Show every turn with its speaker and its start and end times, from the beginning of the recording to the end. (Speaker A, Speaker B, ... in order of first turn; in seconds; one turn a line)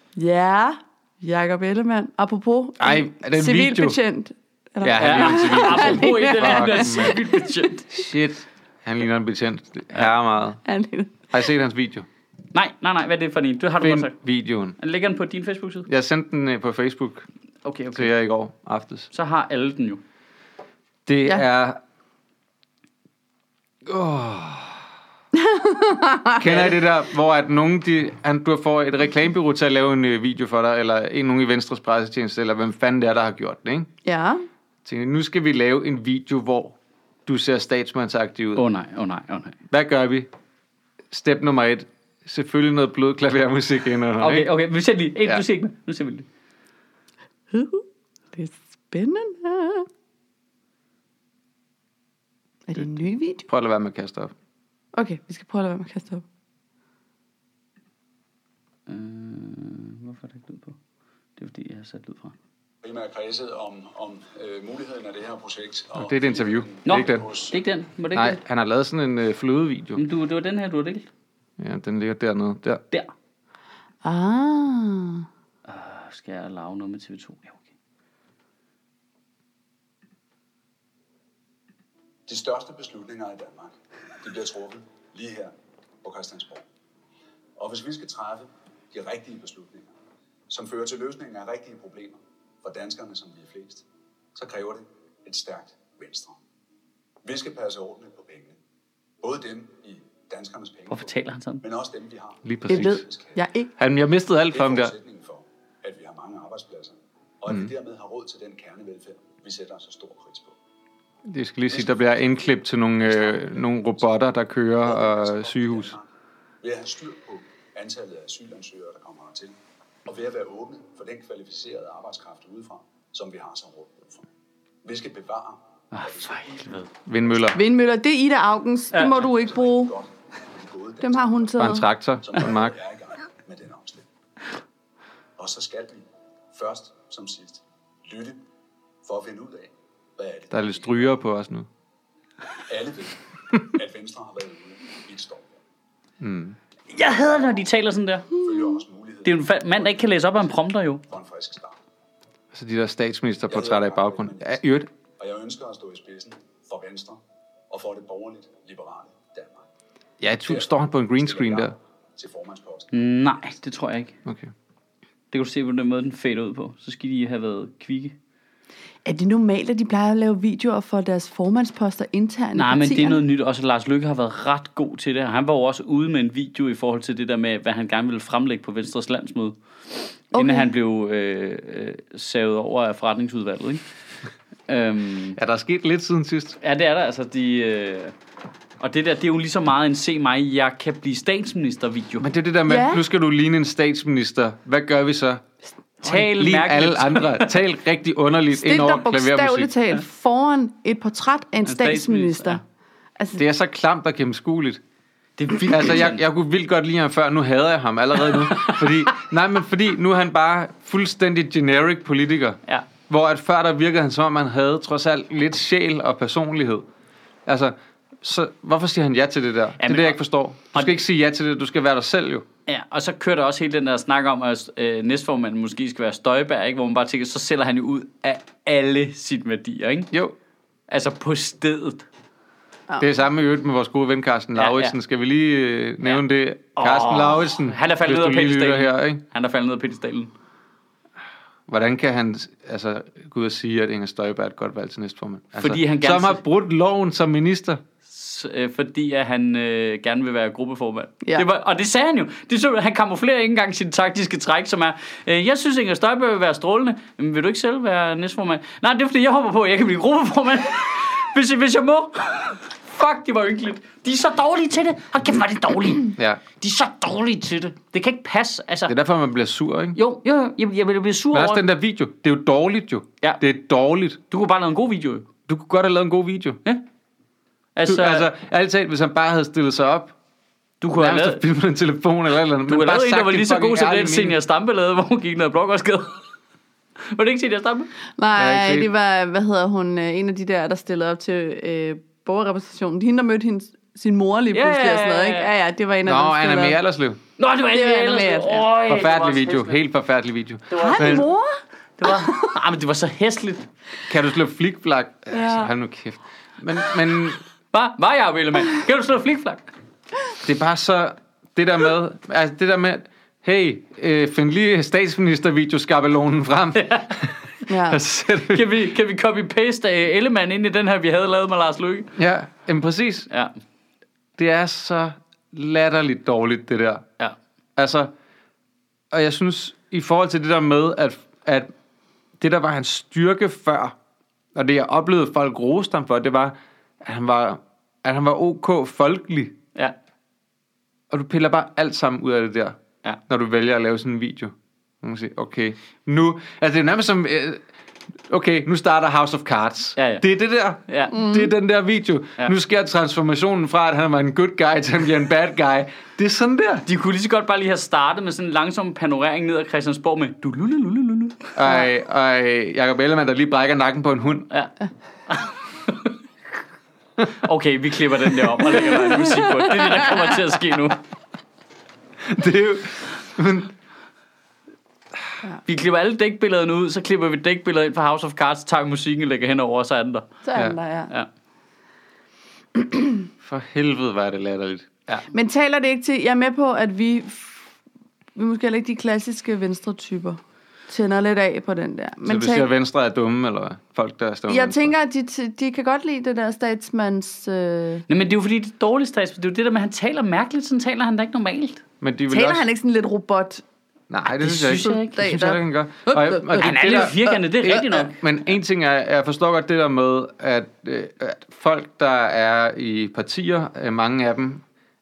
Speaker A: 0.1-7.6
Speaker B: 2.8-4.0
Speaker B: 4.8-7.2
Speaker C: 5.0-7.9
Speaker B: 7.9-10.6
Speaker A: 10.6-11.3
Speaker B: 11.3-12.1
Speaker C: 12.5-14.1
Speaker B: 13.8-14.8
Speaker C: 14.8-15.9
Speaker B: 15.9-17.3
Speaker C: 17.6-18.1
Speaker B: 17.9-19.1
Speaker C: 19.1-20.0
Speaker B: 21.1-21.8
Speaker B: 23.8-24.8
Speaker A: 25.3-26.6
Speaker B: 26.4-33.9
Speaker A: 34.0-34.4
Speaker B: 34.8-38.6
Speaker C: 38.5-39.6
Speaker B: 39.7-40.3
Speaker B: 41.1-44.5
Speaker C: 44.2-46.3
Speaker A: 47.5-49.9
Speaker A: 52.7-53.4
Speaker B: 53.5-54.3
Speaker A: 54.9-56.2
Speaker C: 58.9-60.8
Speaker C: 61.4-62.3
Speaker D: 62.8-67.6
Speaker B: 66.0-67.3
Speaker C: 66.8-68.4
Speaker B: 68.1-70.0
Speaker C: 70.0-71.1
Speaker B: 71.6-72.8
Speaker A: 74.0-75.2
Speaker C: 75.7-77.7
Speaker D: 82.3-86.7
Speaker D: 87.6-89.9
Speaker D: 90.5-93.8
Speaker D: 94.3-96.4
Speaker D: 97.2-98.6
Speaker D: 99.2-103.3
Speaker C: 100.9-101.6
Speaker B: 102.4-103.0
Speaker A: 102.7-103.7
Speaker B: 103.8-104.9
Speaker D: 104.5-110.5
Speaker B: 111.2-115.9
Speaker D: 111.7-112.1
Speaker D: 113.1-114.0
Speaker D: 114.8-116.1
Speaker D: 116.6-124.3
Speaker D: 124.8-126.8
Speaker C: 125.9-126.9
Speaker B: 127.0-127.6
Speaker A: 127.5-129.9
Speaker C: 128.9-129.2
Speaker D: 129.0-134.1
Speaker A: 131.0-131.9
Speaker B: 131.6-132.8
Speaker D: 135.4-138.4
Speaker D: 139.0-141.2
Speaker B: 140.5-141.7
Speaker D: 142.7-145.6
Speaker B: 146.2-146.6
Speaker C: 146.9-148.3
Speaker D: 148.3-151.8
Speaker C: 149.2-151.0
Speaker B: 152.5-154.9
Speaker D: 153.5-154.6
Speaker D: 155.2-159.7
Speaker B: 160.2-161.7
Speaker D: 160.5-163.1
Speaker C: 162.9-164.1
Speaker B: 164.2-164.5
Speaker C: 165.3-168.1
Speaker A: 169.0-173.2
Speaker C: 172.5-183.8
Speaker A: 180.3-180.7
Speaker C: 184.7-185.4
Speaker B: 185.3-186.6
Speaker C: 186.6-188.1
Speaker C: 188.8-192.3
Speaker B: 192.2-195.4
Speaker A: 192.7-193.0
Speaker C: 196.0-197.6
Speaker B: 196.0-199.7
Speaker A: 198.5-202.6
Speaker C: 201.6-202.6
Speaker B: 203.4-204.8
Speaker C: 205.4-206.2
Speaker B: 205.6-216.8
Speaker C: 208.2-209.2
Speaker B: 217.4-222.4
Speaker C: 219.8-220.2
Speaker C: 222.7-230.1
Speaker C: 230.9-232.1
Speaker B: 233.0-239.2
Speaker C: 234.6-234.9
Speaker C: 236.8-240.3
Speaker B: 241.7-247.8
Speaker C: 245.6-246.4
Speaker C: 248.1-268.9
Speaker B: 268.9-270.0
Speaker C: 269.9-271.6
Speaker B: 271.3-274.2
Speaker C: 274.3-275.3
Speaker B: 275.5-276.6
Speaker C: 277.7-278.3
Speaker B: 277.8-280.1
Speaker C: 280.8-281.4
Speaker B: 280.9-284.4
Speaker C: 282.7-286.2
Speaker C: 287.0-287.9
Speaker A: 288.2-296.8
Speaker B: 288.4-288.9
Speaker C: 294.5-295.5
Speaker B: 296.0-297.2
Speaker C: 297.4-299.8
Speaker A: 297.7-298.6
Speaker B: 298.9-301.3
Speaker A: 300.7-302.5
Speaker C: 300.7-301.1
Speaker C: 302.0-303.7
Speaker B: 304.1-307.4
Speaker A: 305.3-305.7
Speaker C: 307.7-309.6
Speaker B: 310.4-317.3
Speaker C: 316.8-317.1
Speaker A: 317.7-318.0
Speaker B: 317.8-318.7
Speaker C: 318.5-322.1
Speaker B: 322.1-323.3
Speaker B: 324.4-327.1
Speaker B: 327.8-328.1
Speaker B: 329.1-331.7
Speaker B: 332.4-333.9
Speaker B: 334.5-339.5
Speaker B: 341.1-347.6
Speaker B: 348.3-356.9
Speaker C: 350.0-350.2
Speaker C: 350.9-351.1
Speaker A: 351.1-351.5
Speaker C: 356.9-361.5
Speaker B: 361.5-364.5
Speaker C: 365.3-366.1
Speaker C: 367.3-371.0
Speaker B: 372.2-373.7
Speaker C: 375.6-380.3
Speaker A: 380.4-381.1
Speaker A: 382.8-383.2
Speaker B: 383.4-384.9
Speaker A: 385.3-387.6
Speaker A: 388.3-392.7
Speaker B: 392.2-394.9
Speaker A: 394.5-398.0
Speaker C: 398.1-401.8
Speaker B: 402.0-402.6
Speaker A: 402.3-403.6
Speaker B: 404.1-414.6
Speaker C: 404.4-405.2
Speaker A: 404.7-407.3
Speaker C: 406.6-408.2